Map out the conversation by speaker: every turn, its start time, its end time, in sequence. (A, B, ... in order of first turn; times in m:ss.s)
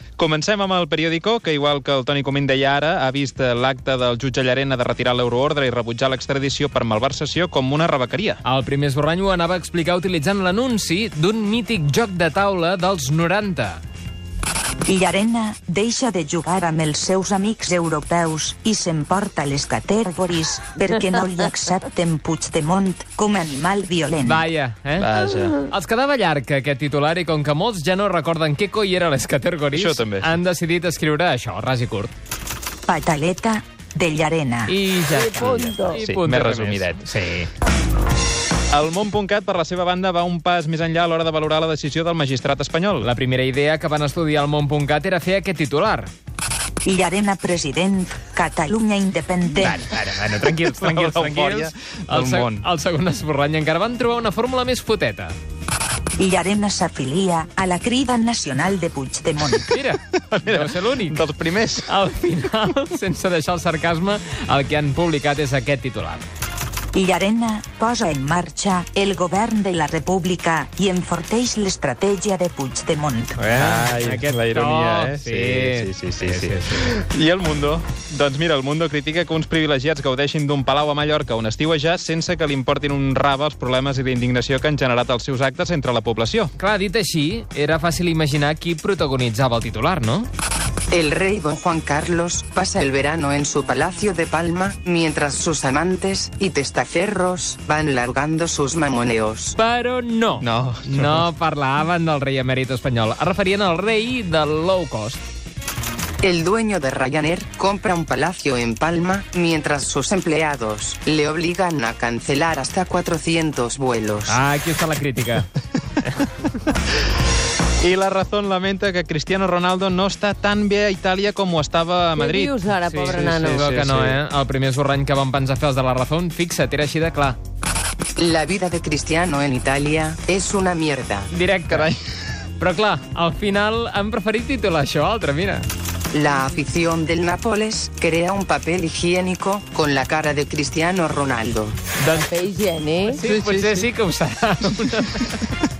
0:00.2-0:08.4 A
0:08.4-0:13.8 B
0:14.8-0:24.4 C
0:24.2-0:25.1 B
0:25.0-0:25.7 A
0:25.6-0:32.1 B
0:29.7-0:30.3 A
0:32.9-0:34.7 C
0:34.7-0:37.5 B
0:35.1-0:36.0 D
0:35.6-0:37.0 A
0:38.7-0:43.1 A
0:43.0-0:46.1 B
0:46.8-0:49.8 C
0:49.6-0:55.4 B
0:50.8-0:52.6 A
0:56.2-0:59.7 C
0:59.7-1:01.2 B
1:00.2-1:01.9 A
1:01.9-1:06.3 B
1:06.9-1:13.4 C
1:13.4-1:16.9 B
1:13.4-1:26.5 A
1:26.6-1:30.3 B
1:30.9-1:39.5 E
1:39.6-1:45.2 B
1:40.4-1:41.2 A
1:46.2-1:54.4 E
1:54.2-1:55.5 B
1:57.8-2:02.5 A
2:02.2-2:03.7 D
2:02.8-2:07.4 B
2:03.1-2:04.2 A
2:08.2-2:11.3 E
2:11.3-2:12.0 B
2:12.6-2:15.7 B
2:16.1-2:21.8 E
2:22.0-2:22.3 B
2:22.1-2:23.2 D
2:23.1-2:25.6 B
2:23.2-2:23.8 A